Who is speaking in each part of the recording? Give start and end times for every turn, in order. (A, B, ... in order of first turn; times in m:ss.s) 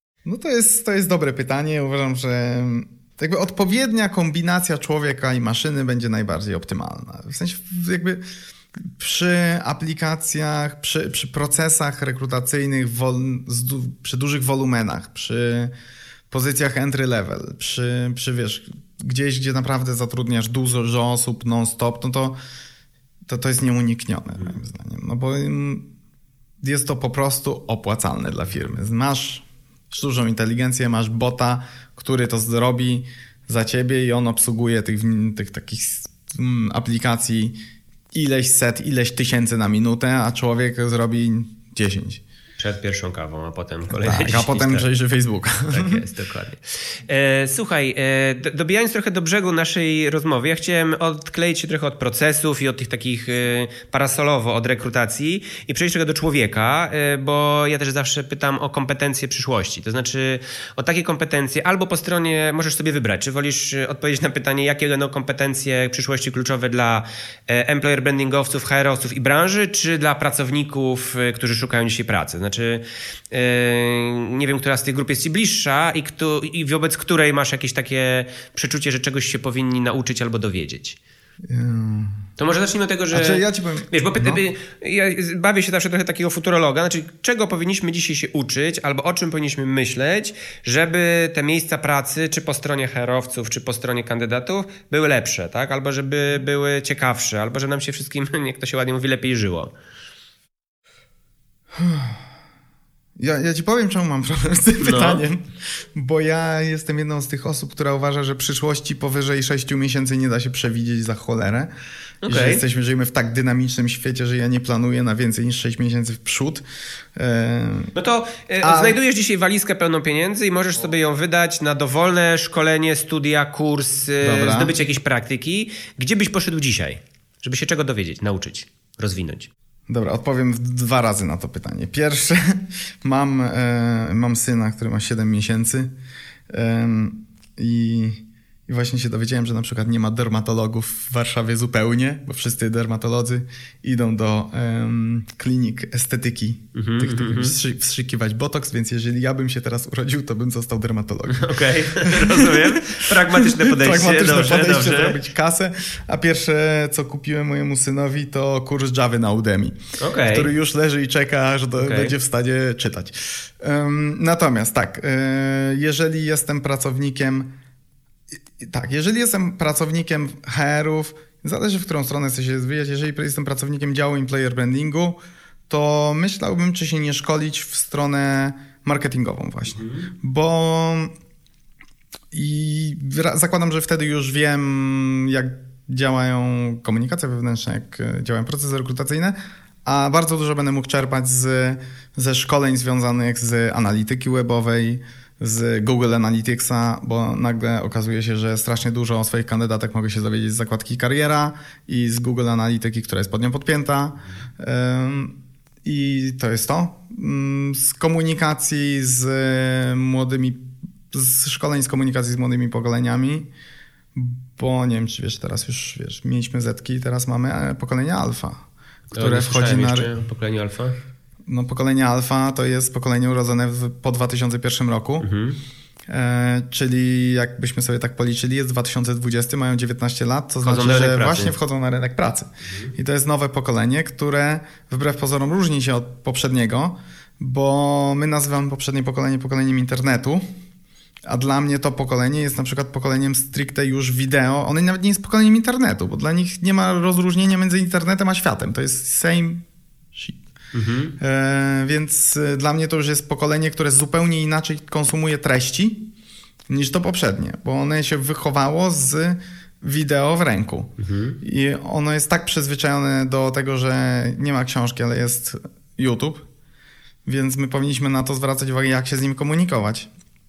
0:00.2-0:08.2 A
0:08.8-0:15.7 A
0:16.3-0:22.4 A
0:23.3-0:25.9 A
0:26.6-0:37.6 A
0:38.1-0:42.2 A
0:42.6-0:44.8 B
0:43.9-0:46.0 A
0:45.7-1:21.0 B
1:21.5-1:22.3 A
1:22.4-1:39.7 B
1:23.1-1:24.4 A
1:41.7-1:42.2 A
1:43.2-1:51.7 A
1:44.8-1:45.2 B
1:52.2-1:52.6 B
1:52.3-1:56.6 A
1:57.2-1:57.9 A
1:57.9-2:09.5 B
1:58.6-1:59.0 A
2:04.2-2:04.8 A
2:09.9-2:15.9 A
2:16.5-2:47.5 A
2:26.7-2:27.6 B
2:31.3-2:35.2 B
2:40.0-2:40.5 B
2:41.8-2:42.1 B
2:48.6-3:01.1 A
3:02.3-3:33.5 A
3:34.2-3:40.1 A
3:39.1-3:41.0 B
3:41.5-3:45.3 A
3:45.2-3:45.6 B
3:46.1-4:00.4 A
3:50.6-3:51.6 B
4:01.3-4:10.4 A
4:10.7-4:11.2 B
4:11.2-4:16.1 A
4:16.7-4:26.4 A
4:21.0-4:21.4 B
4:27.2-4:30.1 A